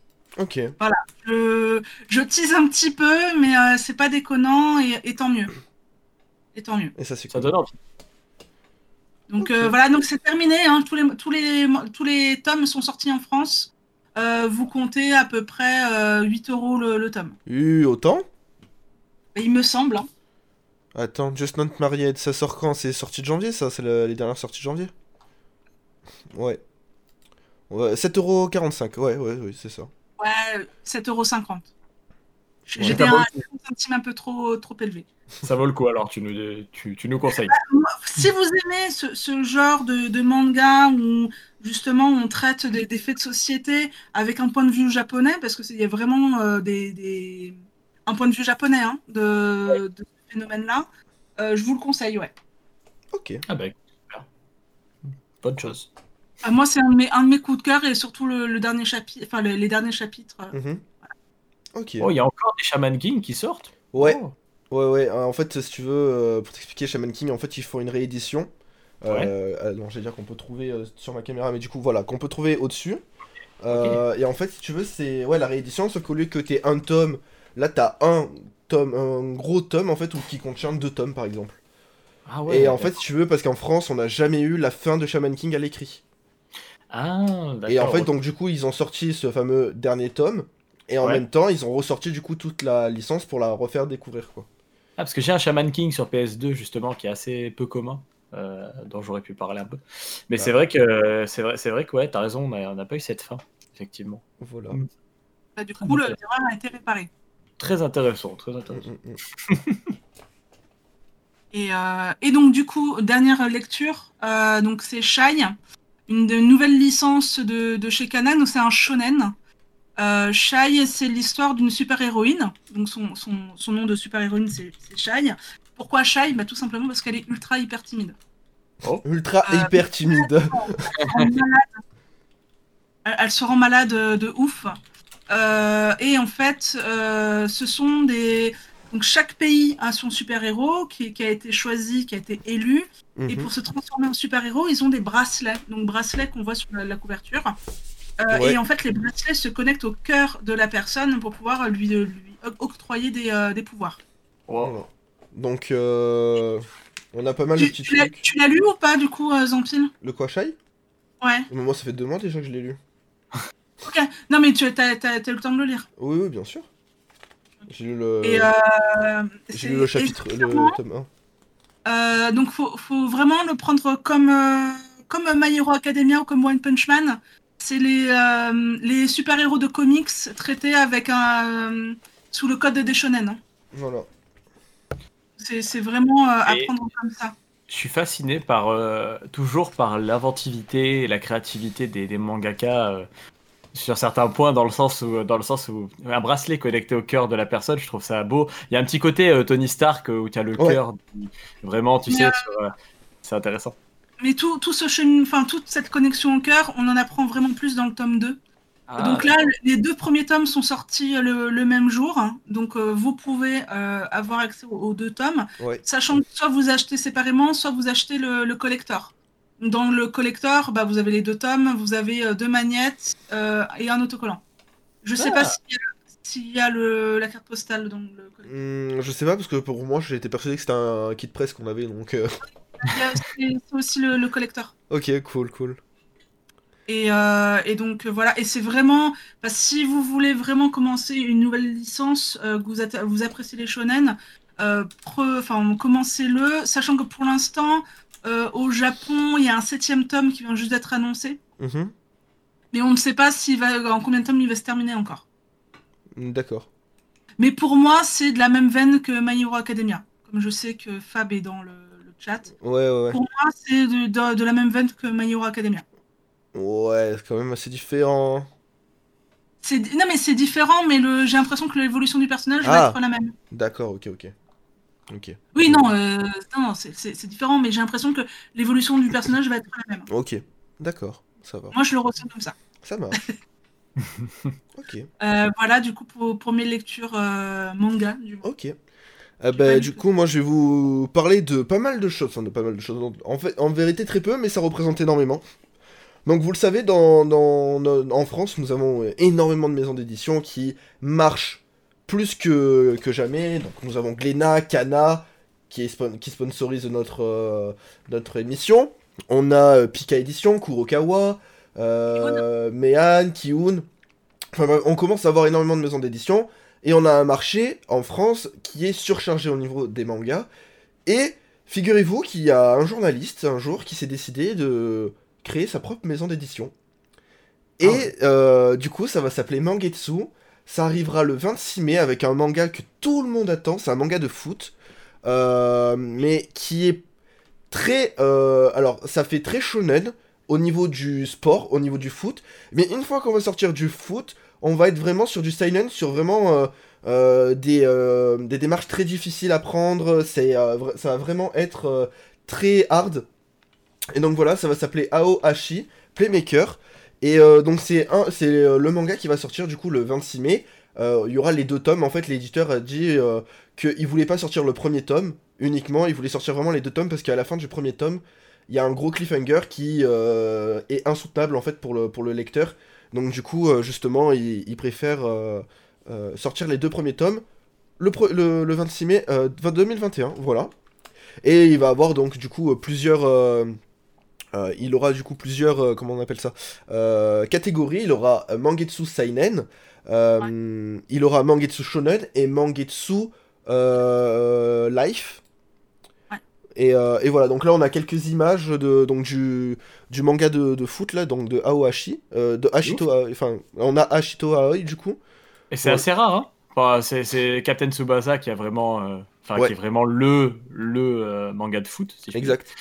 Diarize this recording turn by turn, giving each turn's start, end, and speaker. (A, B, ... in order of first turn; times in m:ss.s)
0:00.4-0:00.8 A
0:00.8-0:05.5 B
0:06.6-0:06.9 B
0:07.0-0:07.5 A
0:07.3-0:07.7 C
0:09.3-0:17.4 B
0:09.4-0:09.7 A
0:17.5-0:18.2 A
0:19.4-0:20.1 B
0:21.0-0:24.9 A
0:26.3-0:26.6 A
0:27.7-0:29.9 A
0:30.2-0:31.7 B
0:32.7-0:35.1 B
0:32.8-0:33.1 A
0:32.8-0:33.3 C
0:35.4-0:37.6 C
0:37.3-0:52.3 B
0:53.1-0:53.4 A
0:53.5-0:54.3 C
0:55.4-0:55.9 C
0:56.4-1:00.6 B
1:00.5-1:00.8 A
1:01.8-1:02.1 A
1:02.0-1:04.3 C
1:03.9-1:08.5 A
1:09.0-1:13.0 A
1:13.6-1:21.6 A
1:13.7-1:14.0 C
1:22.3-1:23.0 C
1:22.5-1:26.0 A
1:26.9-1:28.1 C
1:27.7-1:34.5 A
1:35.0-1:44.9 C
1:44.4-1:44.8 A
1:45.6-1:47.1 B
1:45.8-1:46.2 C
1:47.6-1:48.9 C
1:48.7-1:49.2 A
1:49.5-1:49.8 C
1:51.5-1:59.4 B
2:00.0-2:08.2 B
2:09.0-2:10.9 A
2:09.4-2:11.8 B
2:11.0-2:11.3 C
2:13.0-2:27.6 B
2:23.2-2:23.5 A
2:28.2-2:34.0 B
2:28.3-2:28.6 A
2:34.5-2:34.7 C
2:34.6-2:38.2 A
2:37.6-2:39.9 B
2:40.0-2:40.6 A
2:41.2-2:41.5 B
2:41.5-2:42.8 A
2:43.8-2:45.9 B
2:46.0-2:46.7 A
2:47.7-2:48.5 A
2:48.2-2:50.8 B
2:49.5-2:51.1 A
2:51.8-3:03.4 B
3:03.7-3:04.1 A
3:05.4-3:07.4 B
3:06.5-3:06.7 C
3:07.7-3:13.1 C
3:13.7-3:22.7 C
3:22.1-3:22.4 B
3:23.2-3:23.8 C
3:24.2-3:28.4 B
3:28.9-3:29.3 C
3:29.0-3:44.4 B
3:35.6-3:35.8 A
3:45.0-3:48.5 B
3:45.2-3:45.6 C
3:48.5-3:52.4 A
3:52.8-3:54.7 B
3:54.9-3:55.8 A
3:56.9-4:11.4 B
4:11.6-4:11.9 A
4:12.7-4:15.2 B
4:16.2-4:16.7 A
4:17.4-4:22.5 B
4:22.6-4:23.2 A
4:23.1-4:25.8 B
4:26.5-4:28.5 A
4:29.6-4:33.4 B
4:32.6-4:33.0 A
4:33.5-4:34.3 A
4:35.1-4:35.9 A
4:35.5-4:40.1 B
4:40.1-4:41.8 A
4:41.7-4:42.6 B
4:42.8-4:43.2 A
4:44.1-4:44.3 C
4:44.8-4:45.1 A
4:45.2-4:48.5 B
4:48.4-4:48.8 A
4:49.4-4:55.4 A
4:49.5-4:50.0 B
4:56.2-5:13.8 A
5:12.2-5:12.4 B
5:14.5-5:20.5 A
5:21.1-5:26.7 A
5:27.8-5:34.7 A
5:27.8-5:28.1 C
5:35.2-5:37.0 A
5:37.7-5:53.3 A
5:54.1-6:17.4 A
6:18.0-6:20.7 A
6:21.4-6:23.8 A
6:24.5-6:35.4 A
6:36.8-6:45.2 A
6:45.7-6:52.6 C
6:52.3-6:52.7 A